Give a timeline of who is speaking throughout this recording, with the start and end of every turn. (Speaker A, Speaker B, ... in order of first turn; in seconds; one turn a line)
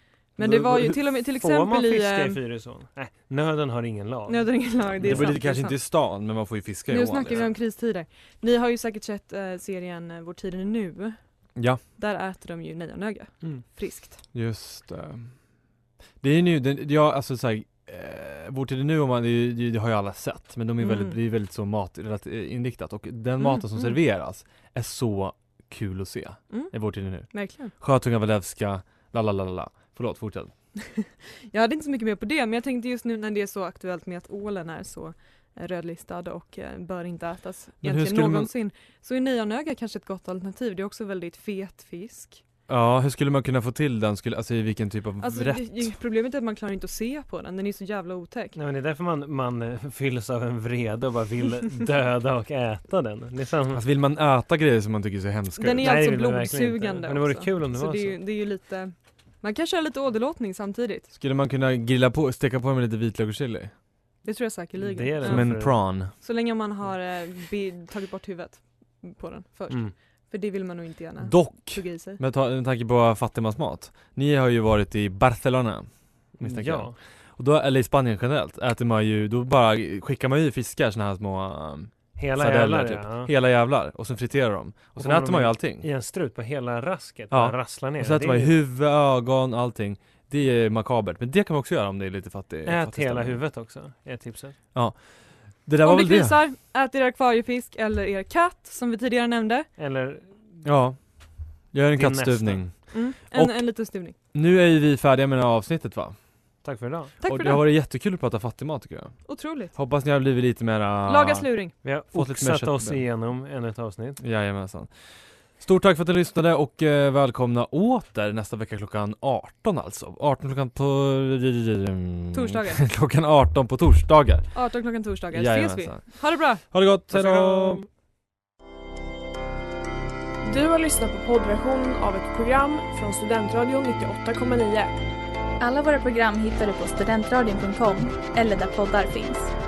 Speaker A: 0.3-2.4
Speaker B: 0.4-5.3
Speaker A: 4.3-5.8
Speaker C: 5.0-7.4
Speaker A: 6.9-14.2
Speaker C: 11.6-11.8
Speaker C: 14.3-15.4
Speaker C: 16.2-30.5
Speaker A: 20.8-21.1
Speaker A: 23.4-24.0
Speaker A: 26.5-27.7
Speaker A: 31.0-42.4
Speaker C: 37.8-38.5
Speaker C: 42.7-45.9
Speaker A: 45.2-48.5
Speaker B: 48.5-53.8
Speaker C: 53.7-55.9
Speaker A: 55.6-61.1
Speaker B: 55.8-58.2
Speaker C: 61.1-63.7
Speaker A: 64.2-72.2
Speaker B: 64.8-65.9
Speaker C: 65.2-66.1
Speaker C: 71.2-85.8
Speaker B: 76.4-77.0
Speaker B: 82.2-83.3
Speaker B: 85.0-88.5
Speaker C: 87.3-93.4
Speaker B: 92.7-94.6
Speaker C: 94.7-96.4
Speaker A: 95.8-99.7
Speaker B: 99.8-100.4
Speaker C: 100.6-101.0
Speaker C: 101.7-103.7
Speaker B: 101.9-102.7
Speaker A: 102.9-104.1
Speaker C: 104.3-106.1
Speaker B: 106.6-107.2
Speaker A: 107.2-107.6
Speaker C: 107.2-111.5
Speaker A: 109.3-109.7
Speaker A: 111.0-111.8
Speaker B: 111.8-114.2
Speaker C: 112.1-113.0
Speaker C: 114.2-114.9
Speaker C: 115.6-124.5
Speaker A: 122.3-122.9
Speaker A: 124.5-126.6
Speaker C: 125.3-127.8
Speaker B: 127.1-127.9
Speaker D: 130.4-134.9
Speaker E: 135.6-139.5